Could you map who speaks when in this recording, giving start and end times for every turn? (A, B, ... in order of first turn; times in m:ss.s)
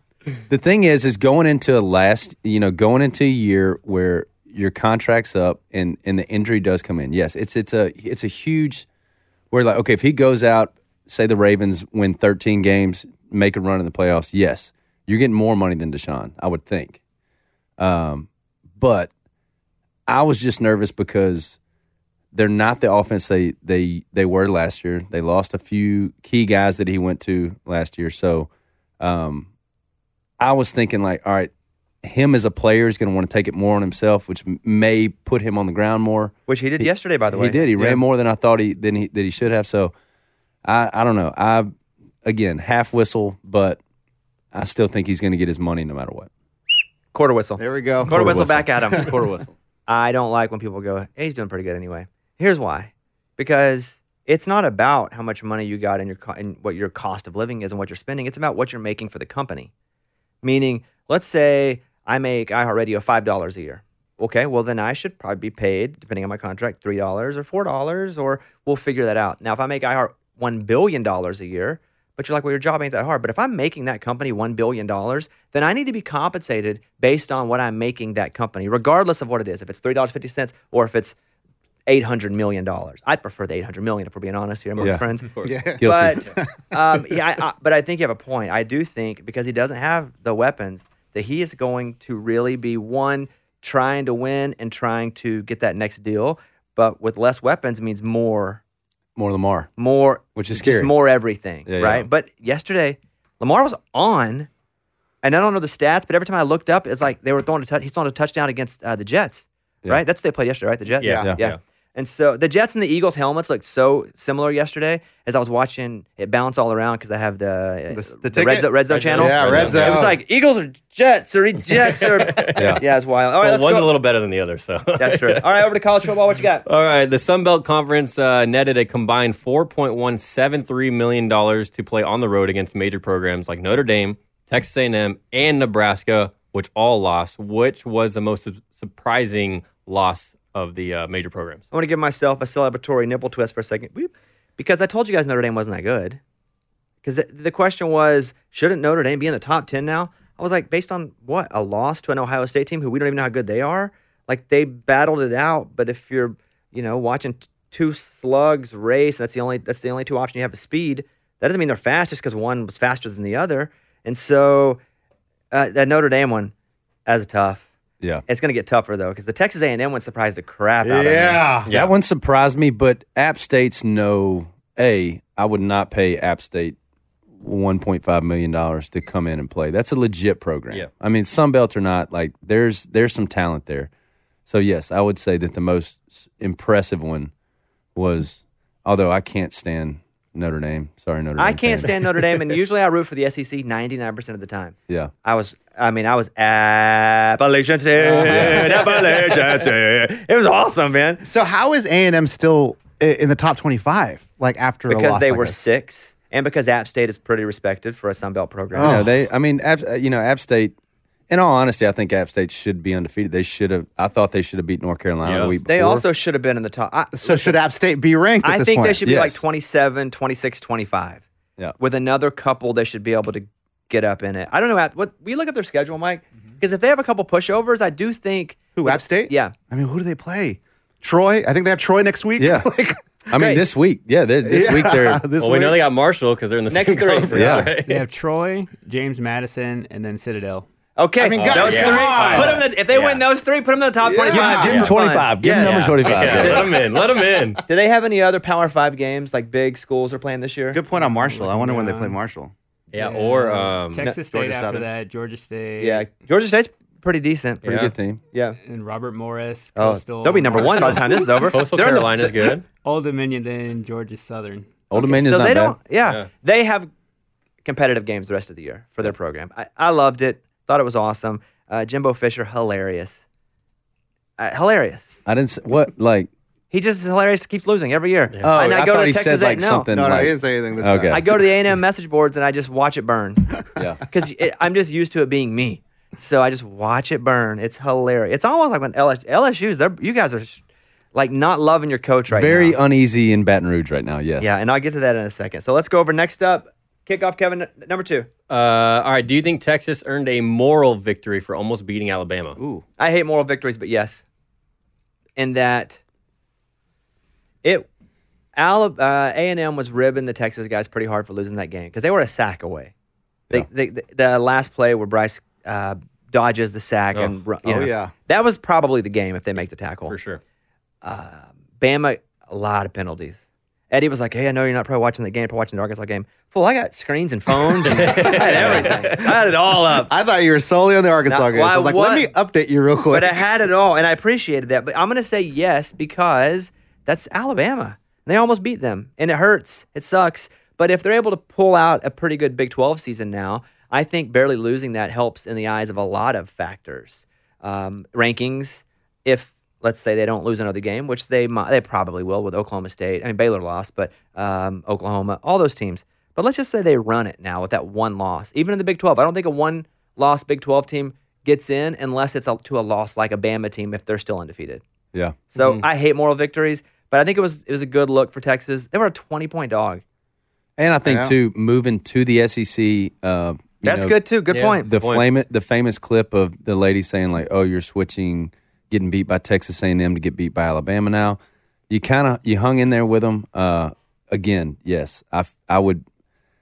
0:00.5-0:08.8 A
0:09.5-0:17.0 A
0:17.8-0:19.1 A
0:20.1-0:21.6 A
0:22.3-0:28.5 A
0:29.0-0:29.5 A
0:30.4-0:31.5 A
0:32.0-0:39.9 A
0:36.5-0:38.0 B
0:40.6-0:41.7 A
0:42.2-0:43.8 A
0:44.5-0:46.3 A
0:47.1-0:49.1 B
0:47.6-0:49.1 C
0:48.0-0:49.5 A
0:49.9-0:59.7 B
1:00.4-1:21.2 B
1:21.8-1:38.6 B
1:24.8-1:25.6 D
1:25.4-1:27.2 C
1:25.8-1:26.2 A
1:39.2-1:39.7 A
1:39.8-1:44.5 B
1:40.3-1:40.9 A
1:41.6-1:42.1 A
1:45.2-2:03.9 B
1:51.0-1:51.6 D
1:51.0-1:51.3 C
1:57.9-2:00.2 C
1:58.9-2:00.1 D
2:01.7-2:02.8 D
2:02.6-2:02.8 A
2:03.4-2:05.7 D
2:05.0-2:06.6 B
2:06.6-2:21.6 D
2:21.7-2:26.2 B
2:27.0-2:44.8 B
2:45.5-2:46.5 B
2:47.0-2:47.7 B
2:48.2-2:51.5 B
2:50.8-2:51.7 C
2:51.7-2:51.9 D
2:51.7-2:56.8 A
2:57.4-3:03.9 A
3:04.5-3:07.3 A
3:07.9-3:12.1 A
3:11.4-3:21.2 B
3:18.0-3:18.8 C
3:18.3-3:18.6 A
3:21.2-3:25.6 C
3:24.9-3:29.0 B
3:28.7-3:29.2 C
3:28.8-3:30.7 A
3:31.3-3:36.0 A
3:35.2-3:35.6 D
3:35.7-3:37.6 B
3:37.1-3:39.0 C
3:38.4-3:41.2 B
3:39.0-3:39.4 A
3:41.8-3:49.5 B
3:48.8-3:53.0 C
3:52.4-3:52.7 A
3:53.3-3:55.2 A
3:53.3-3:53.6 B
3:54.4-3:55.8 C
3:55.4-3:58.0 D
3:56.7-3:57.7 B
3:57.3-3:57.7 A
3:57.9-4:00.7 E
4:01.0-4:06.7 B
4:01.2-4:02.6 C
4:01.4-4:03.2 D
4:04.0-4:04.9 C
4:04.3-4:06.7 A
4:04.6-4:04.9 D
4:05.6-4:07.6 D
4:07.7-4:10.8 B
4:10.7-4:12.5 C
4:10.9-4:12.2 E
4:12.9-4:14.0 D
4:12.9-4:16.1 E
4:14.2-4:14.9 C
4:15.8-4:17.7 B
4:17.6-4:17.9 D
4:17.6-4:18.2 A
4:18.3-4:18.6 B
4:18.6-4:21.3 E
4:19.7-4:22.6 B
4:20.8-4:22.6 D
4:22.8-4:24.8 E
4:24.9-4:25.8 A
4:24.9-4:26.9 B
4:27.6-4:33.2 B
4:34.4-4:35.2 B
4:35.2-4:36.3 A
4:36.7-4:39.9 B
4:38.4-4:41.2 A
4:39.9-4:41.2 C
4:41.1-4:50.6 B
4:43.8-4:44.0 A
4:51.1-4:52.8 B
4:52.3-4:54.6 A
4:54.4-4:58.3 B
4:58.5-5:02.6 D
5:03.0-5:04.2 B
5:05.4-5:06.0 B
5:08.6-5:12.9 B
5:13.5-5:20.1 B
5:17.6-5:18.1 C
5:20.1-5:20.4 D
5:21.0-5:30.1 B
5:27.8-5:29.3 D
5:28.6-5:29.1 C
5:29.9-5:33.4 C
5:31.3-5:32.3 B
5:33.1-6:04.8 B
6:05.5-6:10.0 B
6:05.6-6:05.8 D
6:10.8-6:14.2 A
6:11.0-6:11.4 C
6:13.8-6:14.9 B
6:14.5-6:15.3 D
6:14.8-6:26.0 A